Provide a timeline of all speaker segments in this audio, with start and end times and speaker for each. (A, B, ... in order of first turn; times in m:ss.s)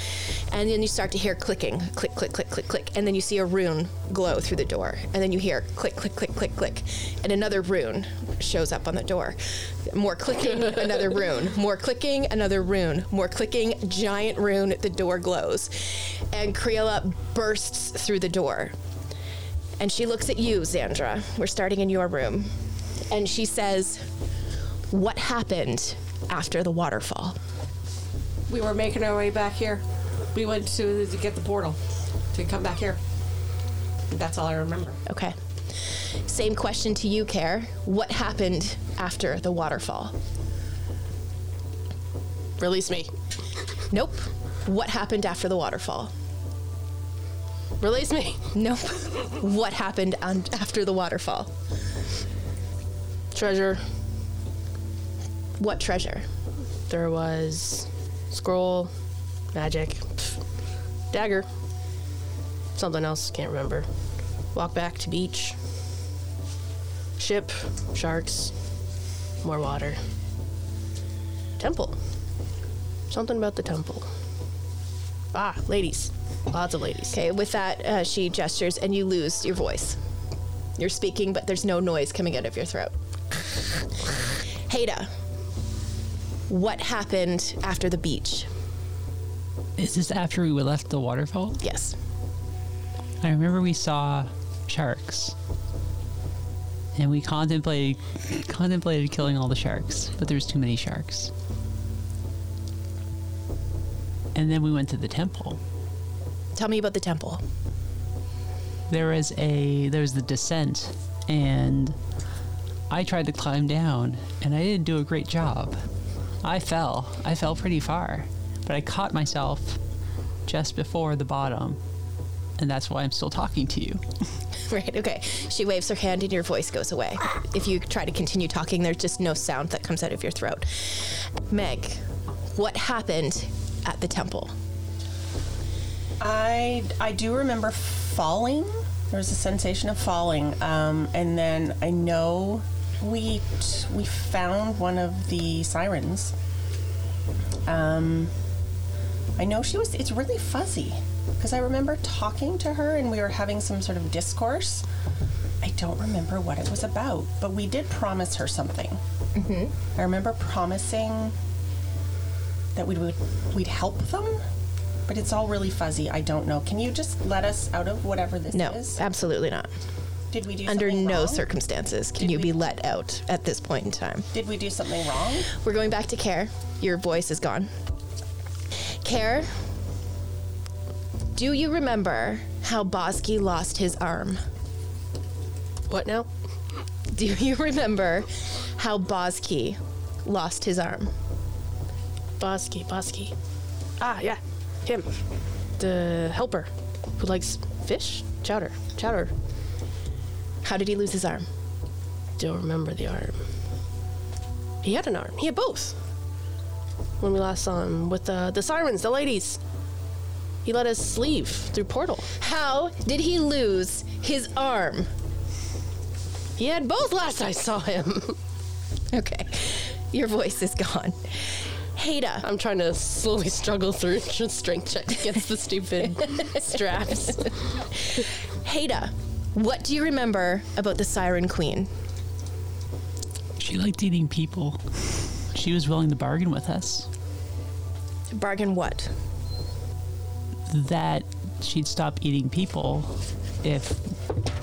0:00.5-0:18.7 A
0:19.8-0:22.5 A
0:23.1-0:24.0 A
0:24.9-0:27.4 A
0:28.5-0:29.8 B
0:30.3-0:31.8 B
0:32.3-0:33.0 B
0:34.1-0:35.0 B
0:35.0-0:35.4 A
0:36.3-0:40.1 A
0:42.6-0:43.1 C
0:43.9-0:46.1 A
0:47.8-0:48.4 C
0:48.5-0:51.5 A
0:53.3-0:53.8 C
0:55.6-0:56.2 A
0:56.9-0:58.9 C
0:59.5-1:00.4 C
1:01.1-1:01.5 C
1:02.8-1:03.8 C
1:04.5-1:05.6 C
1:07.2-1:08.5 C
1:09.4-1:10.0 C
1:11.6-1:12.0 C
1:13.1-1:14.1 C
1:15.3-1:17.2 C
1:17.1-1:20.0 A
1:20.8-1:23.8 A
1:24.7-1:25.1 A
1:26.5-1:28.5 A
1:29.8-1:31.6 D
1:31.6-1:32.0 A
1:33.2-1:35.3 D
1:37.0-1:41.3 D
1:44.3-1:45.6 D
1:46.5-1:47.4 A
1:48.9-1:52.0 D
1:52.9-1:55.8 D
1:56.4-1:59.8 D
2:00.4-2:01.8 D
2:02.6-2:04.0 D
2:04.6-2:12.0 A
2:12.5-2:14.5 A
2:16.2-2:26.3 E
2:27.6-2:28.3 E
2:29.4-2:34.8 E
2:35.6-2:39.0 E
2:39.3-2:39.7 A
2:40.0-2:41.3 E
2:42.7-2:44.4 E
2:45.1-2:49.0 E
2:48.5-2:49.7 A
2:50.3-2:51.5 E
2:50.7-2:54.3 A
2:52.2-2:52.6 E
2:54.3-2:55.5 E
2:55.5-2:57.7 A
2:59.0-2:59.5 A
3:01.3-3:04.4 A
3:05.9-3:06.3 C
3:07.1-3:11.1 A
3:12.4-3:13.3 C
3:14.0-3:15.1 C
3:15.8-3:19.3 C
3:20.6-3:21.4 A
3:22.4-3:23.4 C
3:24.8-3:25.9 C
3:27.2-3:29.6 C
3:30.6-3:32.3 C
3:32.4-3:35.1 A
3:36.6-3:38.4 C
3:39.1-3:42.5 A
3:42.4-3:47.6 C
3:46.5-3:47.5 A
3:48.1-3:51.9 A
3:53.6-3:54.8 D
3:55.5-3:57.1 D
3:58.3-3:59.1 A
4:00.7-4:04.1 D